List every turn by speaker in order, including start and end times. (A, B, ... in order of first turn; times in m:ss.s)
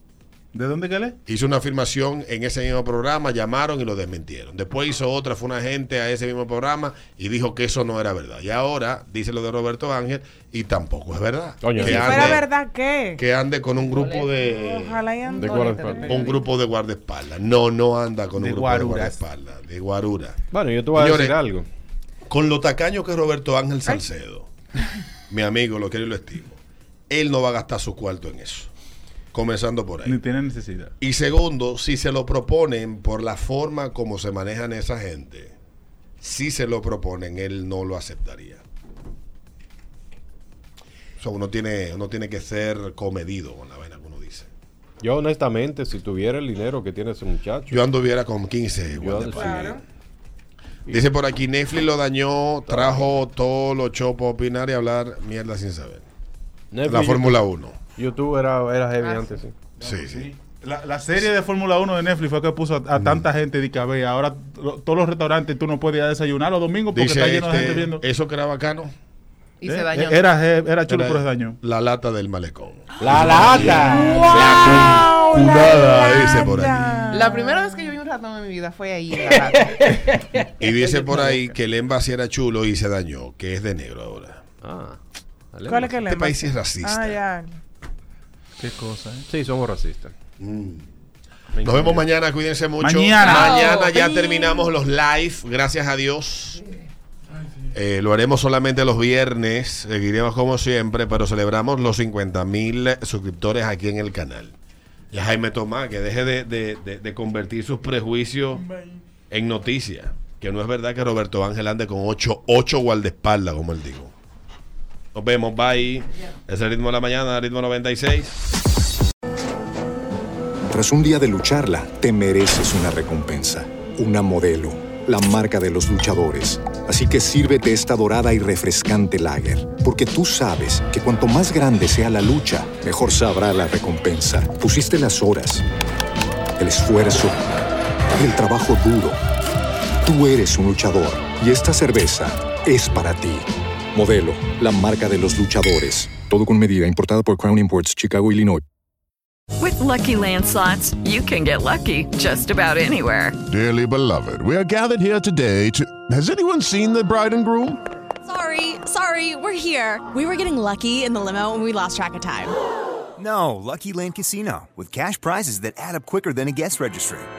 0:00.5-0:01.2 A
0:01.2-0:12.5 B
0:11.6-0:12.4 C
0:11.7-0:13.2 D
0:13.2-0:15.1 B
0:13.8-0:14.3 E
0:14.4-0:16.2 D
0:15.2-0:16.4 E
0:15.3-0:16.1 C
0:16.0-0:20.4 B
0:18.3-0:19.2 A
0:20.5-0:21.7 C
0:20.9-0:21.4 B
0:22.3-0:24.5 B
0:25.3-0:28.7 B
0:29.3-0:30.2 B
0:30.0-0:30.9 A
0:31.0-0:35.5 B
0:36.2-0:38.6 B
0:41.2-0:44.5 B
0:45.0-0:47.9 C
0:47.7-0:49.8 B
0:48.9-0:49.7 C
0:49.3-0:49.8 D
0:50.9-0:56.0 B
0:52.6-0:53.1 C
0:56.7-0:59.5 C
0:56.8-0:57.8 B
0:59.0-0:59.4 E
0:59.8-1:08.0 A
0:59.8-1:00.3 B
1:06.9-1:08.9 B
1:09.6-1:10.2 E
1:09.6-1:11.6 A
1:10.8-1:17.0 B
1:13.0-1:15.1 C
1:13.0-1:14.4 A
1:13.8-1:17.6 D
1:16.6-1:17.1 A
1:17.1-1:20.0 E
1:20.6-1:24.4 B
1:21.2-1:21.5 C
1:24.6-1:25.0 C
1:25.5-1:26.0 C
1:25.6-1:27.6 D
1:26.0-1:27.2 B
1:28.6-1:29.3 A
1:29.3-1:30.1 C
1:30.4-1:30.9 B
1:31.5-1:32.1 C
1:31.6-1:36.6 B
1:32.8-1:33.5 A
1:33.2-1:34.0 F
1:37.7-1:44.6 B
1:45.1-1:48.7 B
1:49.3-1:54.1 B
1:55.1-1:58.3 B
2:00.7-2:15.6 G
2:16.6-2:17.4 G
2:18.2-2:19.2 G
2:20.0-2:28.6 G
2:29.6-2:33.4 F
2:33.5-2:37.8 H
2:38.2-2:42.6 I
2:43.2-2:47.3 J